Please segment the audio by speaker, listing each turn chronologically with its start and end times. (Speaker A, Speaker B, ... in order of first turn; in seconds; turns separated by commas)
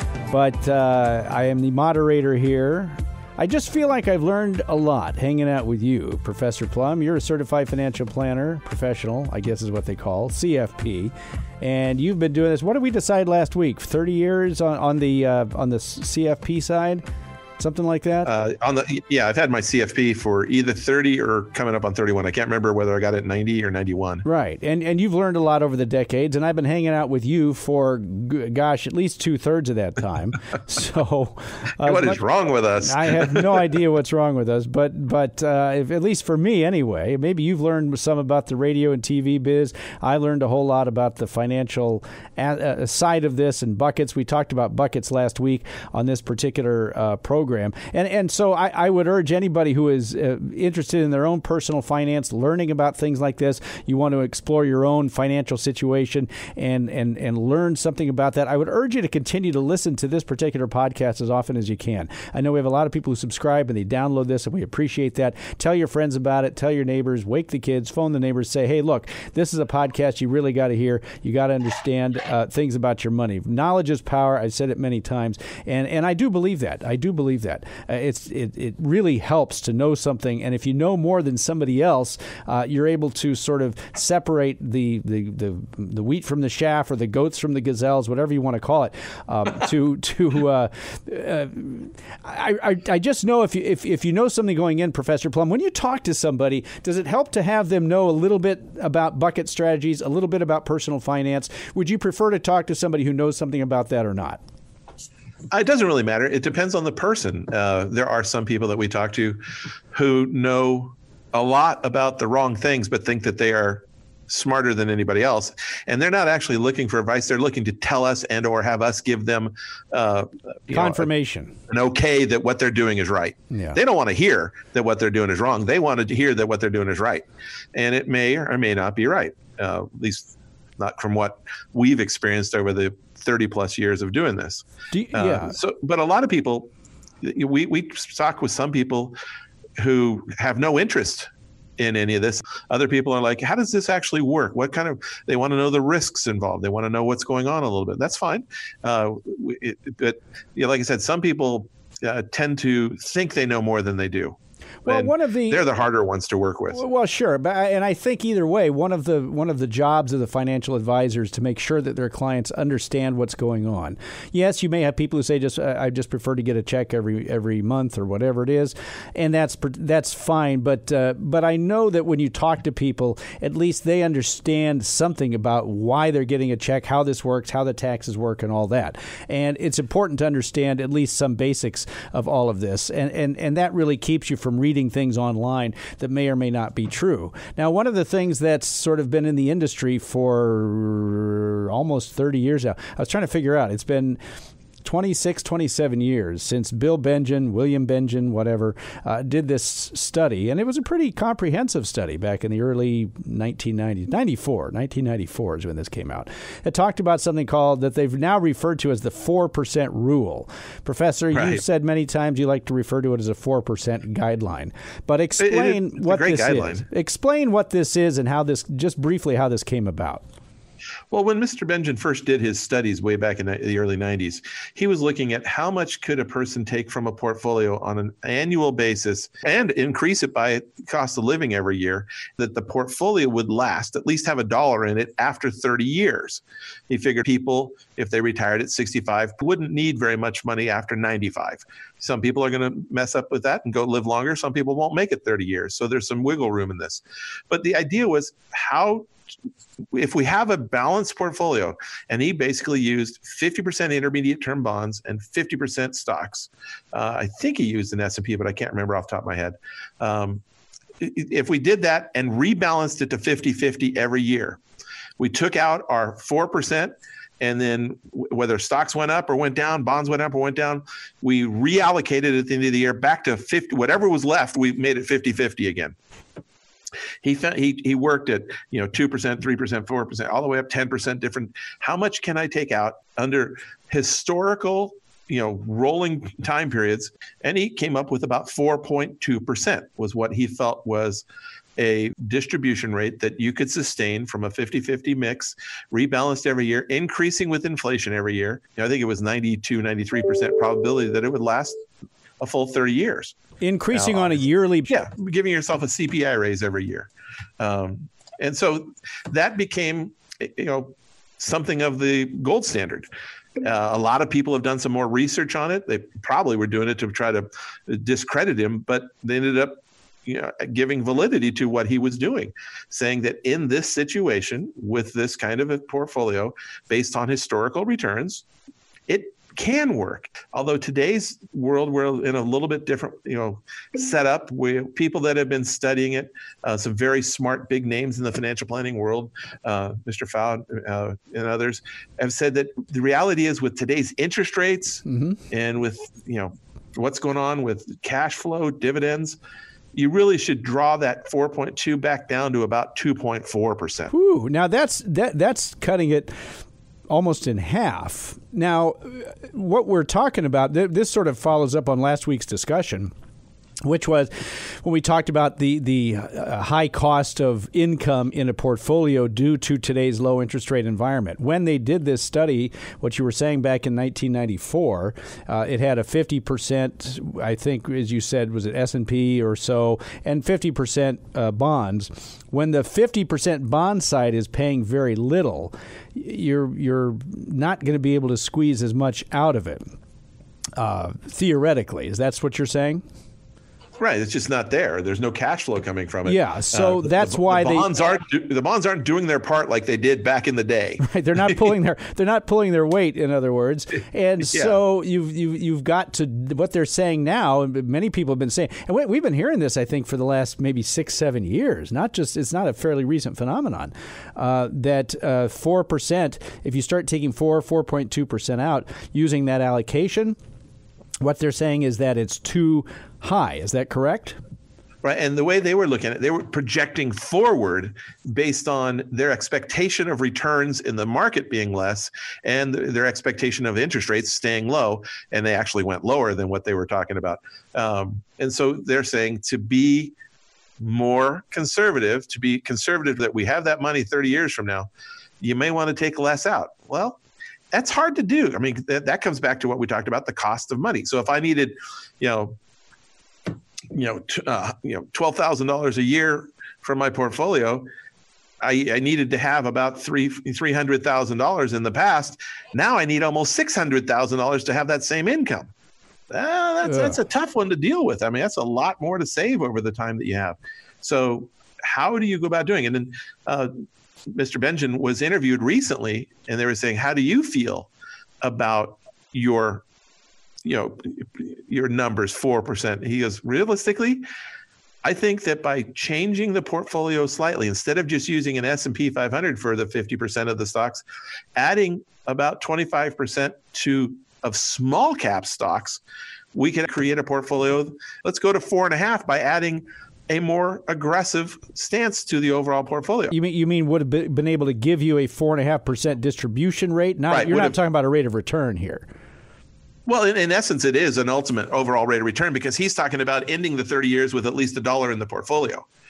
Speaker A: 0.3-17.0, Speaker A: 17.6-18.3, Speaker B: 18.2-24.2, Speaker A: 24.2-32.2, Speaker B: 31.8-33.7, Speaker A: 32.8-104.4, Speaker B: 105.5-109.4, Speaker B: 109.9-121.1, Speaker A: 120.7-121.5, Speaker B: 121.7-136.7, Speaker A: 123.5-123.8, Speaker A: 134.9-135.6, Speaker B: 137.2-139.1, Speaker B: 139.8-156.8, Speaker A: 154.8-155.6, Speaker A: 156.7-194.2, Speaker A: 194.8-220.2, Speaker B: 211.3-211.6, Speaker B: 215.4-216.8, Speaker B: 221.1-249.1, Speaker B: 249.9-260.4, Speaker B: 261.0-264.6, Speaker B: 265.2-275.9, Speaker B: 277.2-291.2, Speaker B: 291.8-301.8, Speaker B: 302.4-303.4, Speaker A: 303.6-305.0, Speaker B: 303.9-313.1, Speaker B: 313.6-328.4, Speaker B: 329.1-349.4, Speaker A: 345.1-345.4, Speaker B: 349.9-354.1, Speaker A: 354.1-356.3, Speaker A: 357.1-363.1, Speaker A: 363.8-389.9, Speaker A: 390.8-393.0, Speaker B: 394.0-401.5, Speaker A: 396.2-397.9, Speaker A: 401.0-420.4, Speaker B: 404.5-404.8, Speaker A: 421.2-424.4, Speaker B: 425.0-440.1, Speaker B: 440.8-444.9, Speaker B: 445.4-447.2, Speaker B: 447.7-452.6, Speaker B: 453.9-457.8, Speaker B: 458.6-465.7, Speaker B: 466.3-473.7, Speaker A: 466.9-467.1, Speaker B: 474.3-477.9, Speaker B: 478.4-479.8, Speaker B: 480.6-484.2, Speaker B: 485.0-491.0, Speaker B: 491.6-496.0, Speaker B: 496.5-503.3, Speaker A: 503.3-509.1, Speaker B: 507.3-507.8, Speaker B: 510.1-515.9